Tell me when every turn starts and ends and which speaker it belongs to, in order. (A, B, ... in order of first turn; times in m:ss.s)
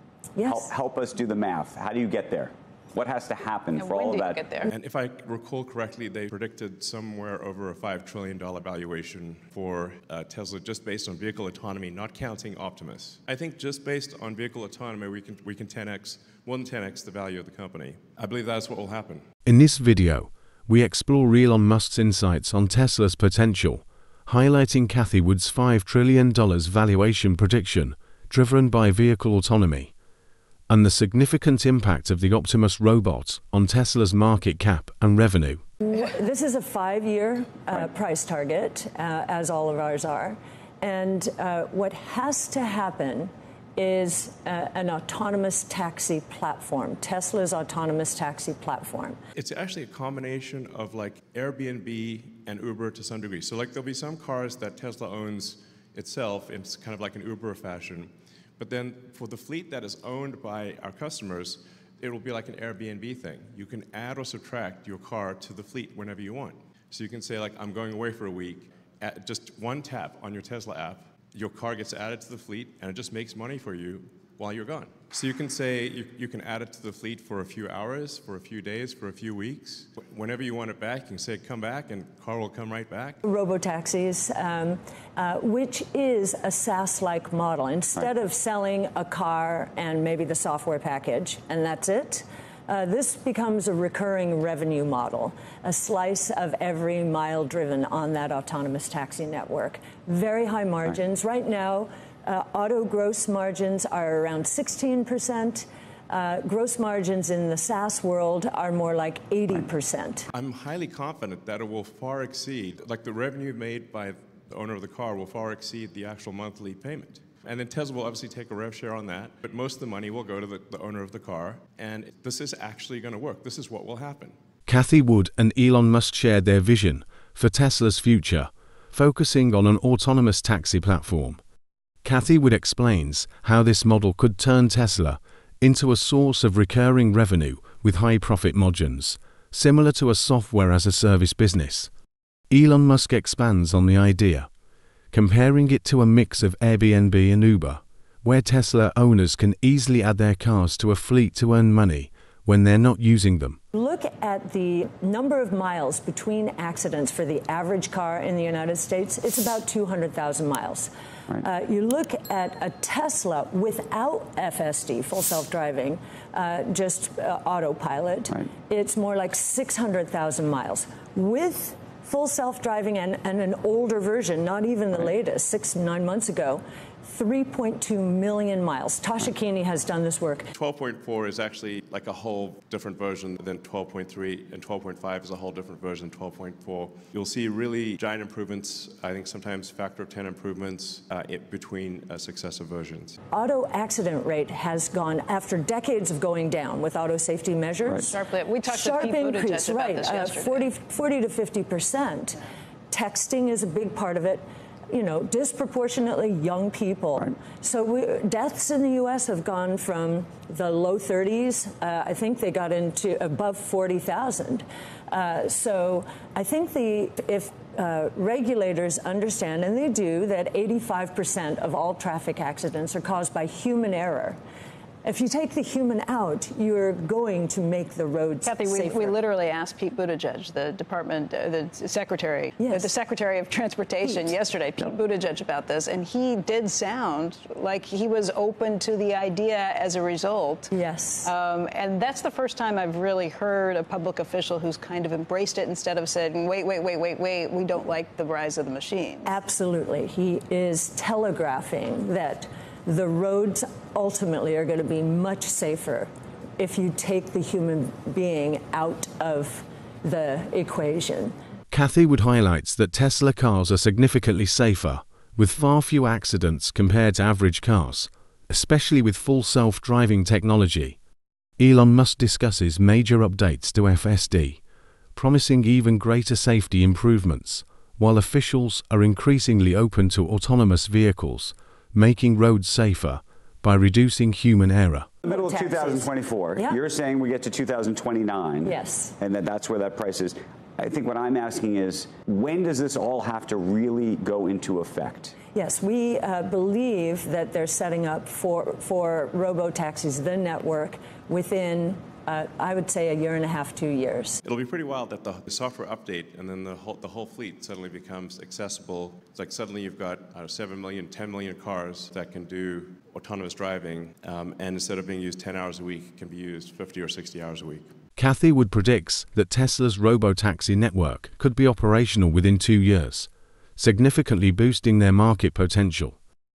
0:00.4-0:00.7 A
0:00.4-0:04.4 B
0:03.8-0:04.7 C
0:04.7-0:19.2 D
0:19.5-0:29.9 E
0:30.7-0:35.6 E
0:35.8-0:49.2 A
0:49.4-1:23.2 D
1:23.2-1:50.3 A
1:50.3-2:04.4 D
2:04.7-2:11.4 E
2:12.0-2:21.9 E
2:22.5-2:24.5 E
2:25.1-2:33.6 E
2:33.7-3:00.5 A
3:00.5-3:13.2 D
3:13.3-3:18.1 A
3:17.9-3:20.7 C
3:18.6-3:44.4 A
3:45.0-3:49.2 A
3:48.4-4:00.7 C
3:52.6-3:52.9 A
4:00.7-4:01.3 A
4:01.2-4:09.4 C
4:09.2-4:21.3 A
4:21.7-4:31.0 E
4:31.6-4:34.6 E
4:35.2-4:45.1 E
4:45.2-4:46.8 A
4:45.2-4:55.4 B
4:48.6-4:49.2 A
4:55.5-5:04.4 A
5:04.4-5:17.9 D
5:18.2-5:26.2 E